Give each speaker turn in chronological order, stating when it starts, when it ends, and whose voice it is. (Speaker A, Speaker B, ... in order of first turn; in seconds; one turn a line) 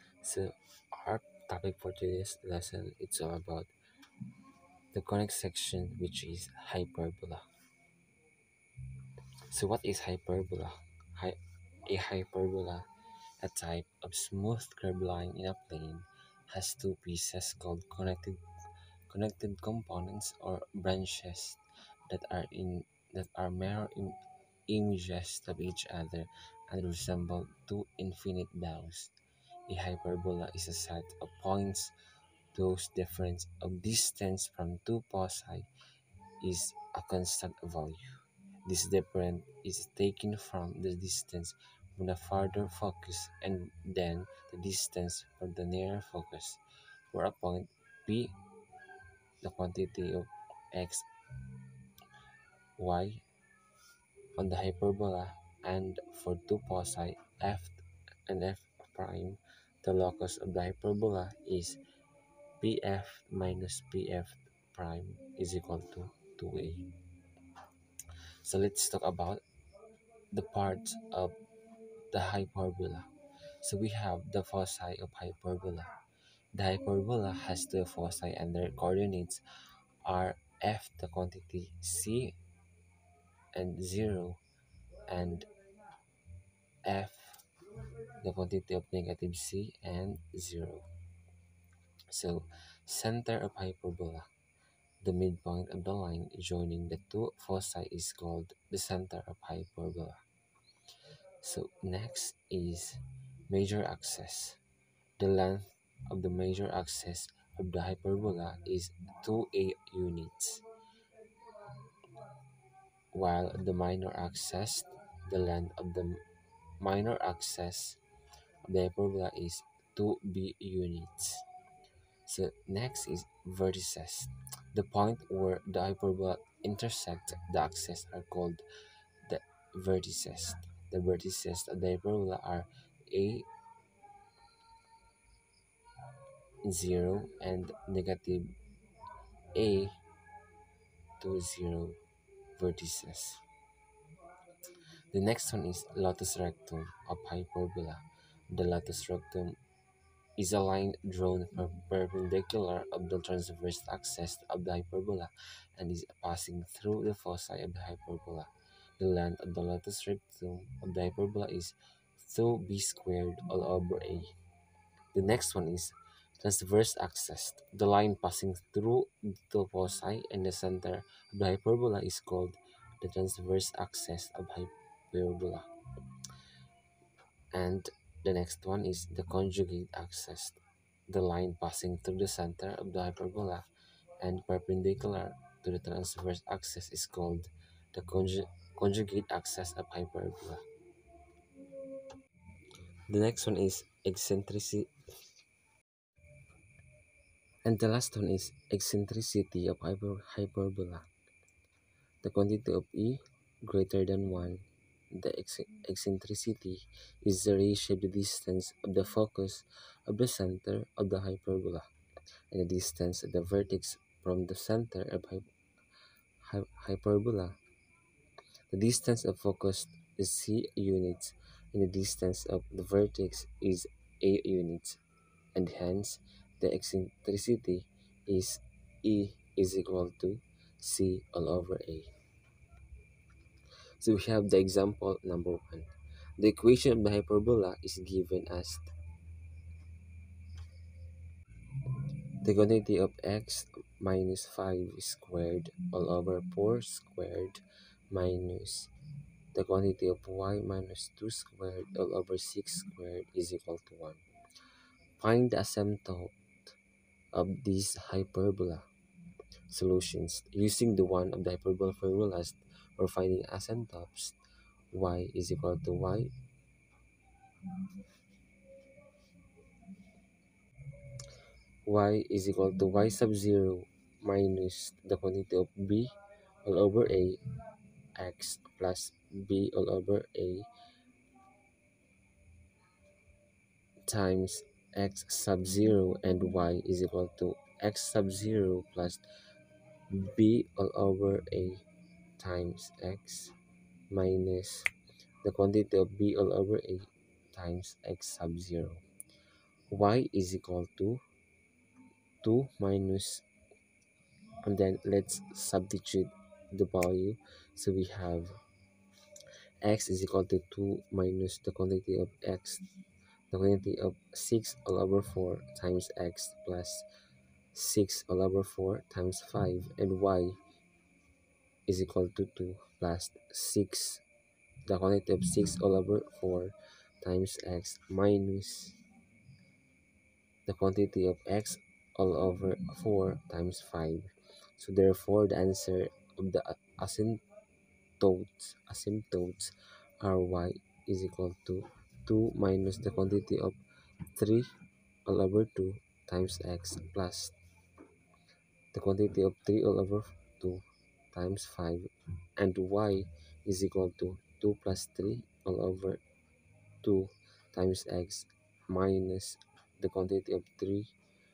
Speaker A: 0.2-3.7
Speaker A: 4.9-7.4
Speaker A: 9.5-12.8
Speaker A: 13.4-18.4
Speaker A: 19.1-29.1
Speaker A: 29.7-31.9
Speaker A: 32.5-35.7
Speaker A: 36.4-38.1
Speaker A: 38.6-48.4
Speaker A: 49.4-51.1
Speaker A: 52.8-53.2
Speaker A: 54.4-61.8
Speaker A: 62.6-66.9
Speaker A: 68.4-69.4
Speaker A: 70.3-71.3
Speaker A: 72.1-73.1
Speaker A: 73.6-76.0
Speaker A: 76.5-79.4
Speaker A: 80.0-82.4
Speaker A: 83.5-84.4
Speaker A: 85.1-85.5
Speaker A: 86.8-90.8
Speaker A: 92.1-94.3
Speaker A: 95.0-100.2
Speaker A: 101.4-104.6
Speaker A: 105.2-110.6
Speaker A: 113.1-116.2
Speaker A: 116.8-118.0
Speaker A: 118.7-121.4
Speaker A: 122.2-128.6
Speaker A: 129.2-133.5
Speaker A: 136.6-138.5
Speaker A: 139.5-140.0
Speaker A: 141.2-142.0
Speaker A: 142.6-143.4
Speaker A: 145.1-149.6
Speaker A: 150.4-164.3
Speaker A: 165.1-175.7
Speaker A: 177.5-183.7
Speaker A: 184.2-190.6
Speaker A: 193.1-194.9
Speaker A: 197.6-201.1
Speaker A: 202.2-211.8
Speaker A: 212.5-215.5
Speaker A: 216.4-217.6
Speaker A: 218.7-225.0
Speaker A: 225.5-232.1
Speaker A: 234.0-238.8
Speaker A: 242.4-248.9
Speaker A: 249.5-254.2
Speaker A: 255.2-256.3
Speaker A: 257.3-258.8
Speaker A: 259.7-264.4
Speaker A: 264.9-266.3
Speaker A: 271.9-277.4
Speaker A: 278.1-280.7
Speaker A: 284.1-289.2
Speaker A: 290.1-291.8
Speaker A: 292.4-293.5
Speaker A: 294.1-294.9
Speaker A: 295.4-299.0
Speaker A: 299.9-301.2
Speaker A: 302.4-303.4
Speaker A: 304.6-308.5
Speaker A: 309.8-312.9
Speaker A: 313.5-317.1
Speaker A: 317.7-320.6
Speaker A: 321.9-324.2
Speaker A: 324.9-329.0
Speaker A: 330.6-337.4
Speaker A: 338.2-343.8
Speaker A: 344.3-344.7
Speaker A: 345.2-347.5
Speaker A: 348.9-356.2
Speaker A: 357.0-361.1